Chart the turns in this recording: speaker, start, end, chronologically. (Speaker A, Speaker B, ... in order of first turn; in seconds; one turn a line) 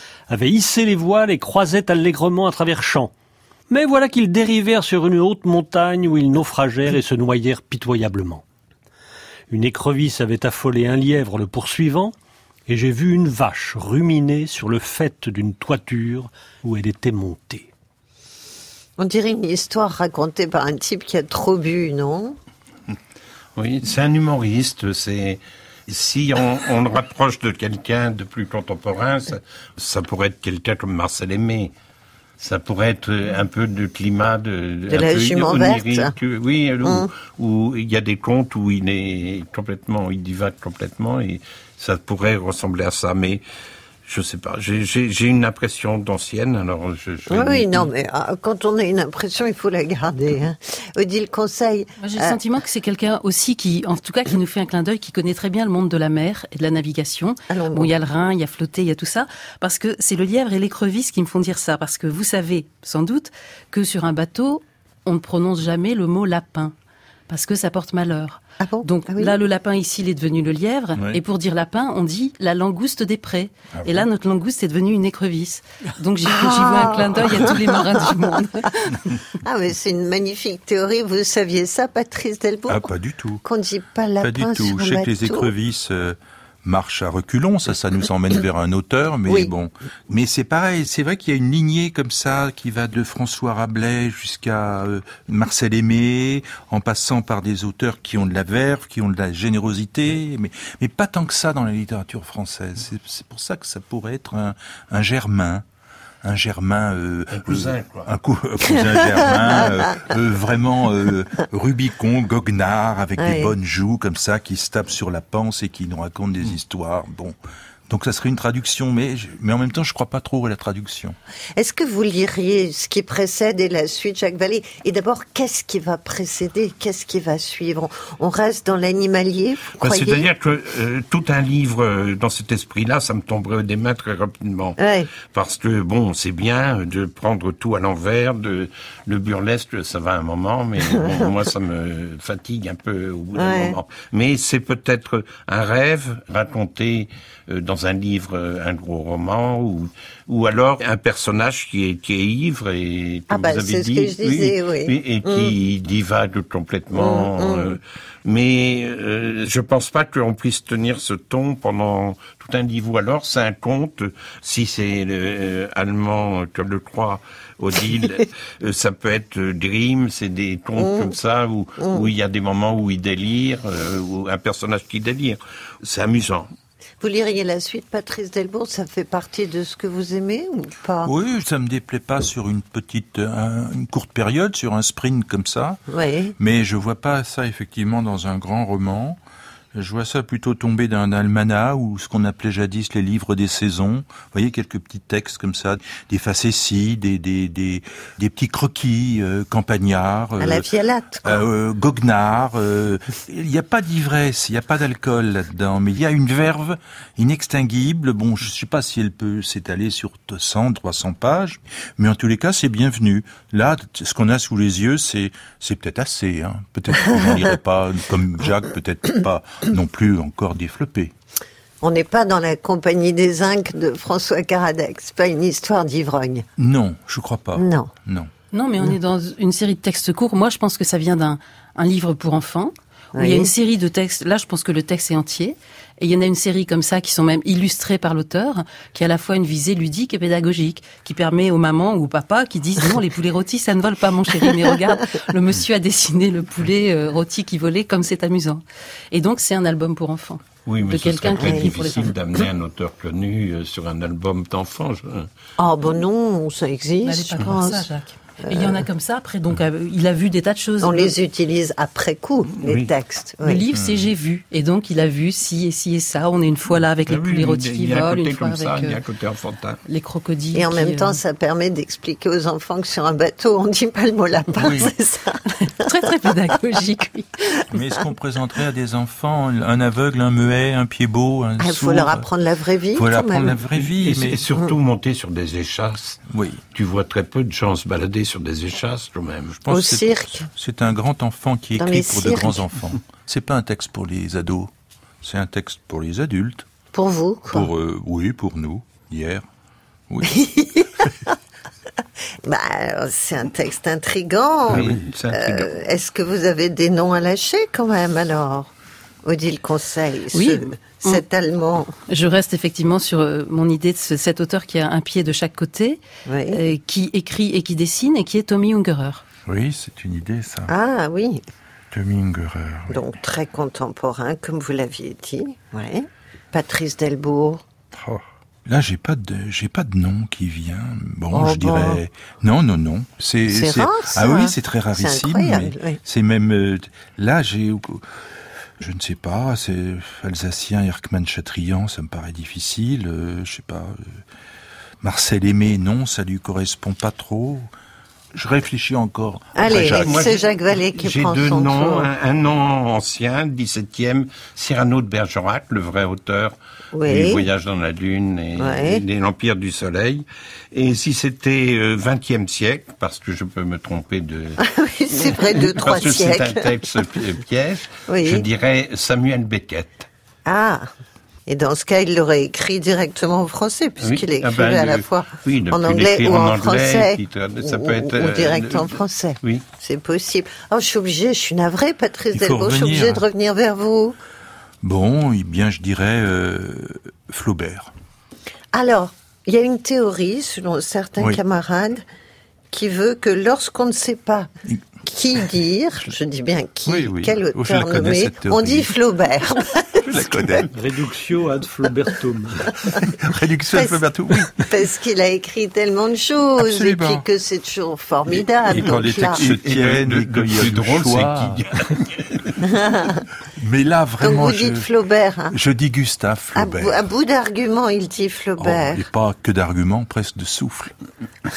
Speaker A: 0.3-3.1
Speaker A: 3.7-8.4
Speaker A: 9.5-12.1
Speaker A: 12.7-17.7
Speaker B: 19.0-22.4
Speaker C: 23.6-31.7
Speaker C: 32.4-43.4
Speaker B: 34.9-36.1
Speaker B: 36.8-37.1
Speaker C: 44.1-47.9
Speaker B: 47.3-52.4
Speaker D: 52.0-66.7
Speaker B: 57.5-57.9
Speaker D: 67.3-78.7
Speaker B: 68.6-69.3
Speaker E: 71.0-71.2
Speaker E: 73.8-74.1
Speaker B: 76.2-82.9
Speaker E: 82.7-83.4
Speaker B: 83.4-85.5
Speaker E: 84.2-105.7
Speaker E: 106.2-117.4
Speaker C: 107.3-108.1
Speaker B: 109.4-109.9
Speaker B: 113.2-113.5
Speaker E: 117.9-121.2
Speaker B: 121.6-130.3
Speaker C: 129.8-134.8
Speaker B: 134.8-135.1
Speaker C: 135.3-176.5
Speaker B: 141.0-141.2
Speaker B: 143.3-143.8
Speaker B: 153.3-155.5
Speaker B: 156.9-157.8
Speaker B: 170.8-171.1
Speaker B: 171.8-172.1
Speaker B: 177.0-181.1
Speaker E: 181.0-185.8
Speaker B: 185.9-186.3
Speaker E: 186.4-189.2
Speaker E: 189.8-200.7
Speaker B: 200.4-201.5
Speaker E: 201.2-221.1
Speaker B: 221.8-226.5
Speaker E: 226.6-228.3
Speaker B: 227.6-227.9
Speaker D: 228.5-252.1
Speaker B: 233.2-233.5
Speaker C: 250.7-255.3
Speaker B: 251.4-251.7
Speaker B: 255.6-257.9
Speaker D: 257.0-261.1
Speaker B: 258.4-258.8
Speaker B: 260.8-263.6
Speaker C: 262.6-262.9
Speaker D: 263.4-269.0
Speaker E: 263.7-264.1
Speaker C: 267.1-269.8
Speaker D: 269.9-271.2
Speaker B: 270.5-275.4
Speaker E: 274.5-274.9
Speaker D: 275.6-277.5
Speaker E: 277.7-282.3
Speaker B: 281.6-283.6
Speaker E: 282.9-284.4
Speaker C: 283.8-286.2
Speaker E: 286.3-286.6
Speaker C: 286.8-289.6
Speaker E: 289.6-294.7
Speaker B: 289.7-290.5
Speaker B: 291.8-292.7
Speaker E: 295.2-296.7
Speaker B: 296.9-297.7
Speaker E: 297.5-299.4
Speaker E: 300.1-300.4
Speaker B: 300.2-301.4
Speaker B: 302.4-308.7
Speaker C: 304.7-305.7
Speaker B: 309.2-311.9
Speaker D: 310.3-311.2
Speaker D: 312.1-319.2
Speaker B: 316.3-316.6
Speaker E: 319.5-320.7
Speaker B: 320.7-321.4
Speaker E: 321.9-323.2
Speaker B: 322.9-327.6
Speaker E: 327.9-338.1
Speaker B: 331.3-332.0
Speaker B: 333.5-336.0
Speaker E: 338.8-344.2
Speaker E: 345.0-347.7
Speaker E: 348.3-350.3
Speaker B: 349.6-352.1
Speaker C: 350.0-350.4
Speaker C: 351.0-364.6
Speaker B: 356.9-357.5
Speaker B: 358.6-359.0
Speaker B: 364.6-366.7
Speaker C: 365.1-370.1
Speaker B: 368.1-368.5
Speaker B: 370.5-370.9
Speaker B: 371.5-384.2
Speaker C: 374.0-379.6
Speaker E: 382.3-383.2
Speaker E: 384.8-387.9
Speaker B: 388.7-392.0
Speaker B: 392.7-394.5
Speaker B: 395.0-400.6
Speaker E: 396.9-398.9
Speaker E: 400.0-400.8
Speaker A: 400.7-402.7
Speaker E: 402.9-404.8
Speaker B: 403.7-409.4
Speaker E: 406.6-407.2
Speaker E: 408.3-411.7
Speaker C: 409.3-412.5
Speaker B: 412.7-413.2
Speaker E: 413.6-414.9
Speaker B: 414.2-415.6
Speaker E: 415.5-417.0
Speaker B: 416.6-419.1
Speaker E: 418.6-420.9